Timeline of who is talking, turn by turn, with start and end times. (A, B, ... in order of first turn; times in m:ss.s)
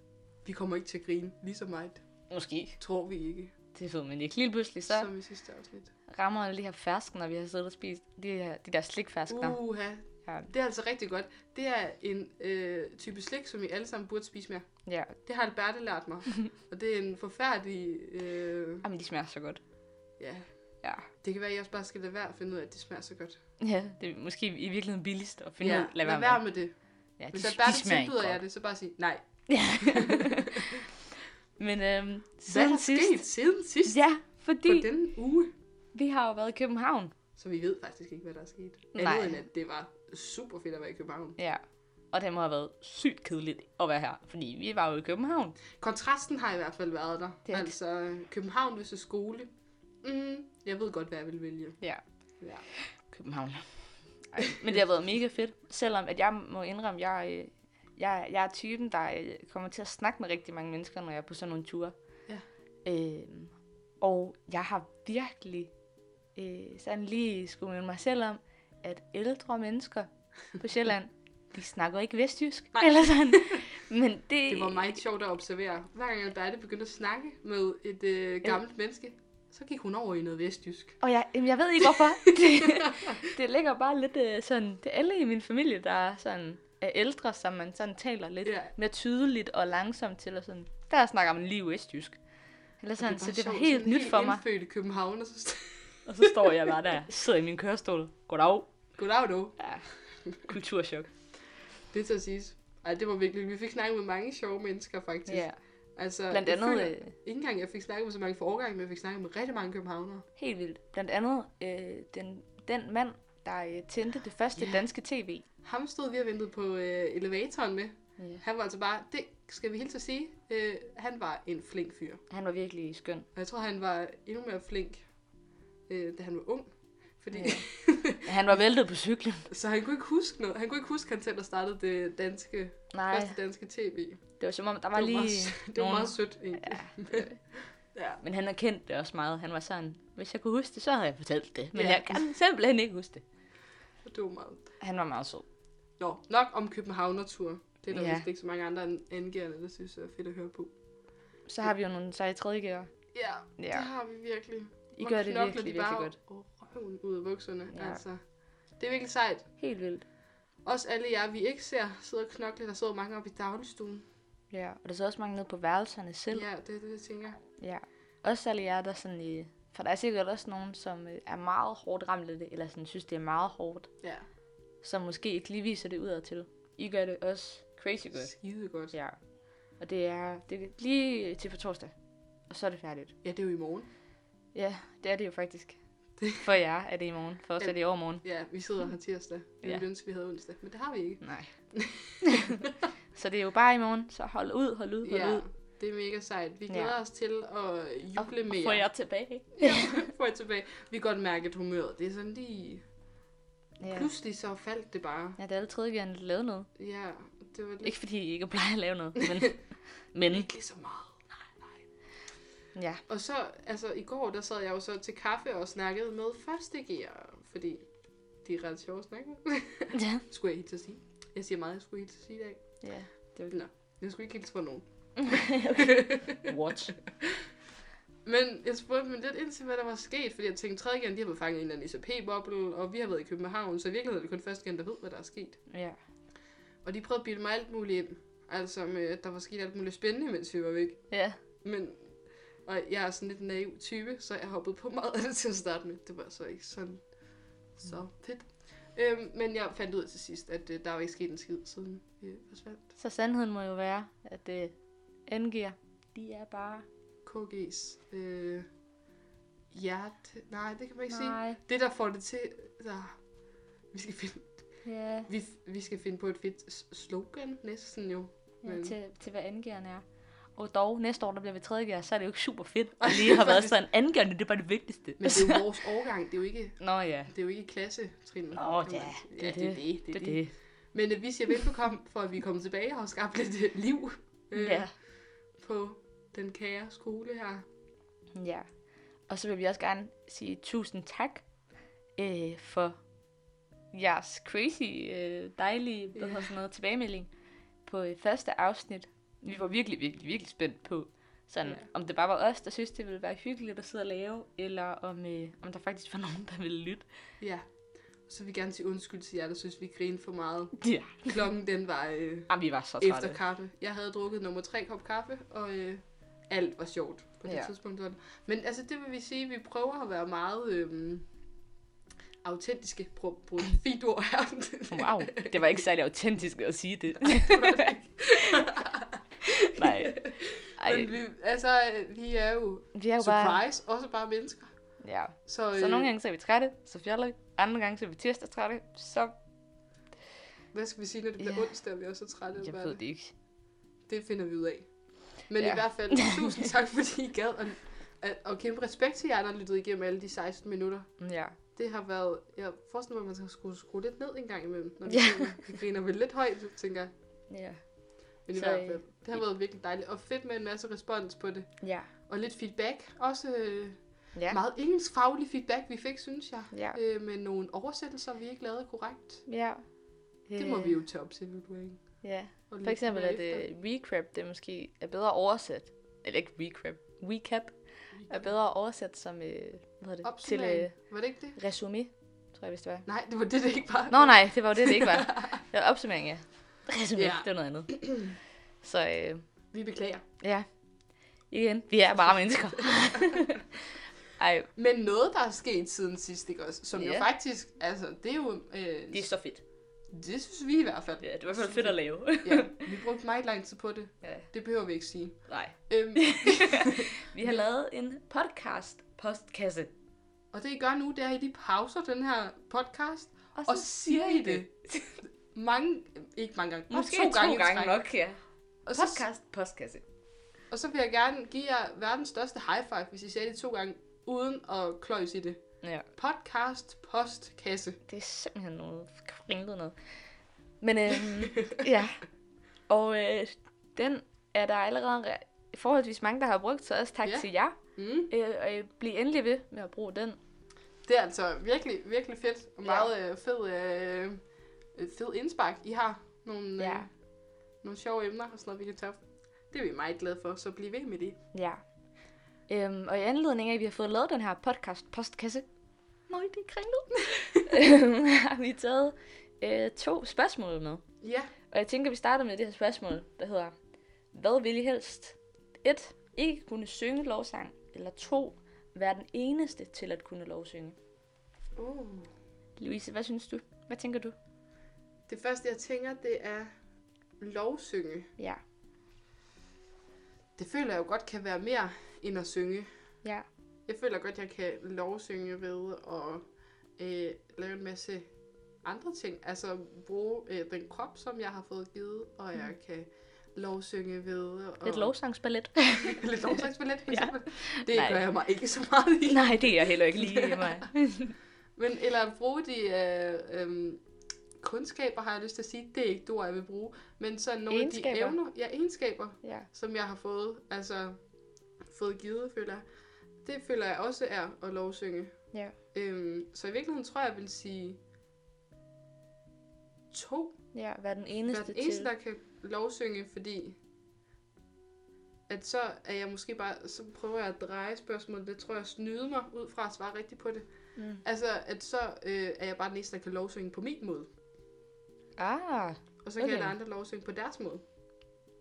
0:00.4-0:02.0 A
0:02.3-0:02.8 B
0:02.8-0:03.5 A
0:03.7-0:05.1 B
0:04.9-0:05.9 A
0:06.1-0:09.6 B
0:09.3-0:18.8 A
0:14.8-0:15.2 B
0:18.8-0:19.6 B
0:20.2-0:20.6 A
0:21.1-0:23.4 A
0:23.6-0:26.4 B
0:25.6-0:26.7 A
0:27.2-0:28.4 B
0:27.3-0:30.7 A
0:29.5-0:30.7 B
0:31.6-0:33.2 B
0:32.5-0:34.1 A
0:33.8-0:34.9 B
0:34.6-0:35.5 A
0:35.9-0:37.1 B
0:37.4-0:41.4 A
0:38.9-0:39.4 B
0:41.4-0:45.6 B
0:45.8-0:49.5 A
0:47.5-0:47.7 B
0:50.0-0:51.8 A
0:52.7-0:53.7 B
0:54.3-1:01.9 B
1:02.8-1:05.7 B
1:06.3-1:15.0 B
1:12.7-1:13.6 A
1:14.5-1:21.0 A
1:21.0-1:32.2 B
1:21.8-1:23.2 A
1:28.4-1:28.7 A
1:32.8-1:34.4 B
1:33.0-1:36.3 A
1:36.1-1:38.7 B
1:39.0-1:39.7 A
1:39.6-1:39.9 B
1:40.2-1:40.5 A
1:40.4-1:41.1 B
1:41.9-1:50.2 A
1:45.3-1:45.6 B
1:46.3-1:47.1 B
1:50.4-1:55.4 B
1:54.6-1:54.8 A
1:55.6-2:02.2 A
1:58.2-1:58.4 B
2:02.3-2:03.3 B
2:03.3-2:05.0 A
2:05.9-2:08.6 A
2:07.3-2:09.5 B
2:09.5-2:14.2 A
2:12.9-2:13.4 B
2:14.4-2:17.4 B
2:14.9-2:18.2 A
2:18.2-2:23.2 B
2:21.7-2:22.2 A
2:24.0-2:24.7 A
2:24.8-2:25.4 B
2:26.0-2:30.7 A
2:27.9-2:28.2 B
2:31.5-2:32.9 B
2:33.1-2:38.2 A
2:33.6-2:33.9 B
2:35.0-2:36.2 B
2:37.7-2:38.0 B
2:38.8-2:39.5 A
2:39.6-2:40.0 B
2:40.6-2:44.0 A
2:44.5-2:46.5 B
2:46.3-2:47.4 A
2:47.6-2:53.9 B
2:54.8-2:58.3 B
2:58.1-2:59.0 A
2:58.9-2:59.2 B
2:59.8-3:01.9 B
3:02.5-3:03.1 B
3:03.2-3:03.9 A
3:04.5-3:08.2 B
3:07.6-3:12.7 A
3:11.2-3:11.5 B
3:13.1-3:15.4 B
3:15.0-3:18.9 A
3:16.7-3:16.9 B
3:18.2-3:20.1 B
3:19.5-3:22.8 A
3:23.8-3:24.1 B
3:23.8-3:25.4 A
3:25.4-3:26.7 B
3:26.8-3:28.0 A
3:27.8-3:30.5 B
3:29.2-3:29.5 A
3:30.3-3:31.2 A
3:32.7-3:33.0 B
3:33.1-3:37.9 A
3:38.4-3:46.4 A
3:39.9-3:40.2 B
3:42.8-3:43.6 B
3:45.3-3:47.0 B
3:48.2-3:55.6 A
3:55.7-3:56.0 B
3:56.8-4:07.1 A
4:01.1-4:01.4 B
4:07.8-4:12.9 A
4:13.0-4:14.7 B
4:15.3-4:16.8 B
4:17.2-4:18.6 A
4:19.7-4:23.2 A
4:21.1-4:21.6 B
4:23.9-4:24.5 A
4:24.8-4:25.3 B
4:25.2-4:29.0 A
4:28.6-4:30.0 B
4:30.6-4:35.6 B
4:33.0-4:33.8 A
4:35.2-4:45.0 A
4:36.8-4:37.3 B
4:38.5-4:40.5 B
4:44.5-4:44.9 B
4:45.5-4:47.6 A
4:48.4-4:48.7 B
4:49.3-4:51.4 B
4:52.2-4:53.0 B
4:53.9-4:57.3 B
4:56.1-4:56.5 A
4:57.8-5:07.1 B
5:07.4-5:07.7 A
5:08.2-5:21.2 A
5:10.8-5:11.4 B
5:12.5-5:13.4 B
5:17.4-5:17.7 B
5:22.4-5:25.8 A
5:24.9-5:27.9 B
5:27.2-5:29.2 A
5:29.5-5:31.1 B
5:29.7-5:34.7 A
5:32.9-5:33.6 B
5:35.0-5:39.3 B
5:35.4-5:36.1 A
5:40.7-5:43.0 A
5:41.4-5:41.7 B
5:42.6-5:43.3 B
5:44.1-5:57.1 A
5:45.6-5:46.3 B
5:51.2-5:51.6 B
5:55.1-5:55.5 B
5:57.5-5:57.8 B
5:58.4-5:59.4 B
5:58.4-6:09.5 A
6:01.8-6:02.1 B
6:06.7-6:07.0 B
6:09.4-6:09.8 B
6:10.5-6:11.0 B
6:10.6-6:13.7 A
6:12.2-6:17.8 B
6:18.2-6:18.5 A
6:18.3-6:21.0 B
6:20.2-6:21.6 A
6:21.5-6:23.0 B
6:23.0-6:25.6 A
6:24.1-6:28.2 B
6:27.2-6:28.3 A
6:28.8-6:29.4 B
6:29.7-6:30.2 A
6:30.4-6:30.7 B
6:31.5-6:33.8 B
6:32.2-6:33.4 A
6:34.4-6:34.7 B
6:34.8-6:39.3 A
6:36.9-6:37.3 B
6:39.1-6:39.6 B
6:40.1-6:47.6 A
6:41.2-6:42.8 B
6:45.5-6:49.9 B
6:50.5-6:54.7 A
6:53.5-6:55.1 B
6:55.5-6:58.0 A
6:56.9-7:00.0 B
6:58.9-6:59.2 A
7:00.7-7:05.6 A
7:06.1-7:08.0 A
7:08.1-7:10.1 B
7:10.8-7:12.2 B
7:12.9-7:17.8 B
7:17.2-7:18.3 A
7:18.3-7:20.4 B
7:21.0-7:24.4 A
7:24.9-7:27.1 A
7:26.8-7:27.1 B
7:27.8-7:31.4 A
7:31.5-7:31.8 B
7:32.7-7:35.7 B
7:36.3-7:41.0 B
7:41.2-7:41.5 A
7:41.7-7:43.7 B
7:44.3-7:51.0 B
7:51.8-7:52.3 A
7:52.8-7:54.3 B
7:55.3-7:56.7 A
7:57.4-7:58.3 A
8:00.6-8:02.9 A
8:03.9-8:06.4 A
8:07.0-8:08.3 A
8:08.8-8:15.1 A
8:14.8-8:16.2 B
8:16.0-8:20.9 A
8:17.1-8:18.2 B
8:19.2-8:21.3 B
8:21.8-8:24.0 A
8:24.6-8:31.2 A
8:27.7-8:28.4 B
8:31.9-8:32.8 A
8:33.4-8:38.0 A
8:40.1-8:40.6 A
8:40.7-8:42.1 B
8:41.5-8:43.8 A
8:45.5-8:54.3 A
8:51.0-8:51.2 B
8:55.4-8:56.7 B
8:56.2-8:57.8 A